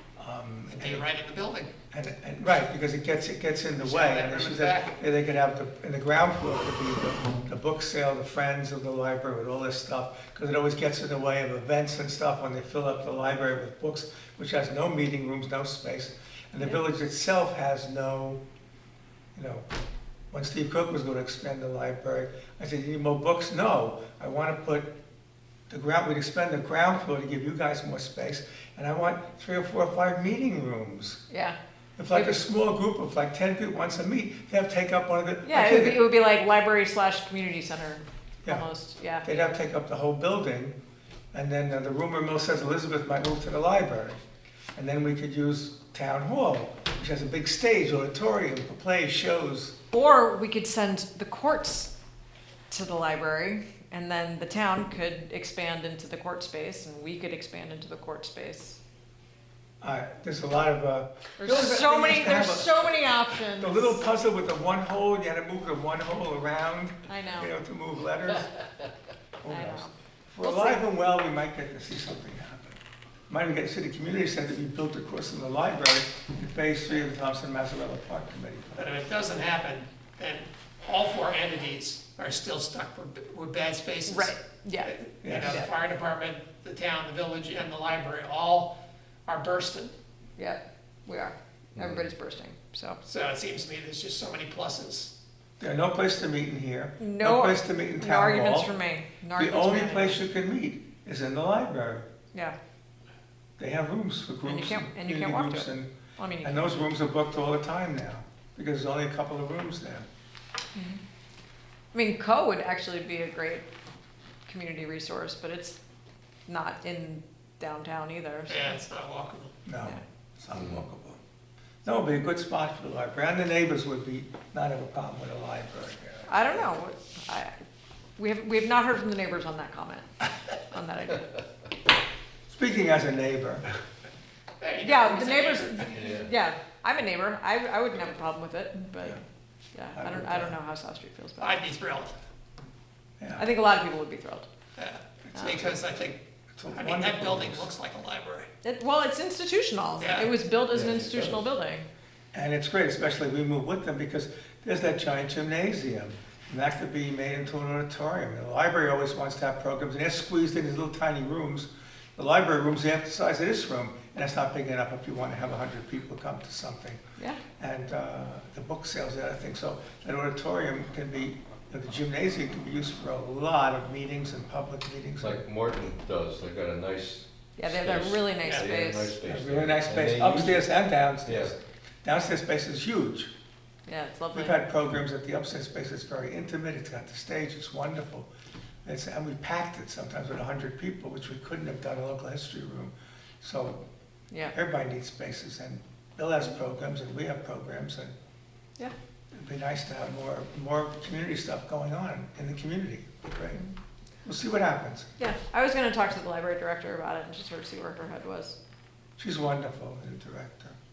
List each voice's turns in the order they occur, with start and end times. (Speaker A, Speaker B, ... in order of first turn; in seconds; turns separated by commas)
Speaker A: 0.2-1.1, Speaker B: 0.7-1.7, Speaker A: 1.9-18.4, Speaker B: 3.7-5.0, Speaker A: 19.3-19.7, Speaker A: 20.3-24.9, Speaker A: 25.7-31.2, Speaker C: 31.3-31.6, Speaker A: 32.0-36.0, Speaker C: 32.1-32.4, Speaker C: 35.4-39.3, Speaker A: 39.2-40.7, Speaker A: 41.3-44.2, Speaker A: 44.8-49.8, Speaker C: 49.9-51.9, Speaker C: 52.7-58.8, Speaker A: 59.8-62.9, Speaker C: 61.4-64.0, Speaker A: 63.6-68.6, Speaker C: 67.1-67.5, Speaker A: 69.4-78.9, Speaker C: 69.5-70.8, Speaker B: 78.8-88.7, Speaker C: 84.1-84.9, Speaker A: 85.2-85.6, Speaker B: 89.3-89.9, Speaker C: 90.4-93.0, Speaker D: 91.8-92.0, Speaker B: 93.0-95.1, Speaker A: 95.6-98.7, Speaker C: 97.0-100.2, Speaker A: 99.3-102.1, Speaker A: 103.6-105.9, Speaker C: 104.4-106.8, Speaker A: 106.4-110.1, Speaker C: 110.7-111.0, Speaker C: 111.9-113.7, Speaker C: 114.5-115.8, Speaker C: 116.5-118.8, Speaker B: 118.5-119.5, Speaker A: 119.6-121.2, Speaker A: 121.8-126.7, Speaker C: 126.3-127.6, Speaker C: 128.2-130.1, Speaker C: 130.6-131.4, Speaker A: 132.5-133.7, Speaker B: 134.6-136.1, Speaker C: 134.8-139.2, Speaker D: 135.9-136.3, Speaker C: 139.7-141.6, Speaker A: 139.9-140.6, Speaker B: 141.4-142.2, Speaker A: 143.2-143.4, Speaker C: 143.3-144.5, Speaker B: 144.8-148.5, Speaker A: 145.3-145.8, Speaker A: 146.6-147.7, Speaker C: 148.6-151.9, Speaker B: 150.0-150.3, Speaker D: 150.7-151.4, Speaker A: 152.3-167.0, Speaker A: 167.6-175.4, Speaker D: 175.2-180.7, Speaker C: 177.6-179.2, Speaker B: 178.4-178.7, Speaker A: 179.2-183.3, Speaker D: 181.2-181.5, Speaker C: 183.8-184.6, Speaker A: 184.3-188.3, Speaker A: 188.8-193.8, Speaker C: 194.3-194.6, Speaker A: 194.5-198.1, Speaker A: 199.3-203.6, Speaker A: 204.2-205.1, Speaker C: 205.2-208.6, Speaker A: 209.2-210.8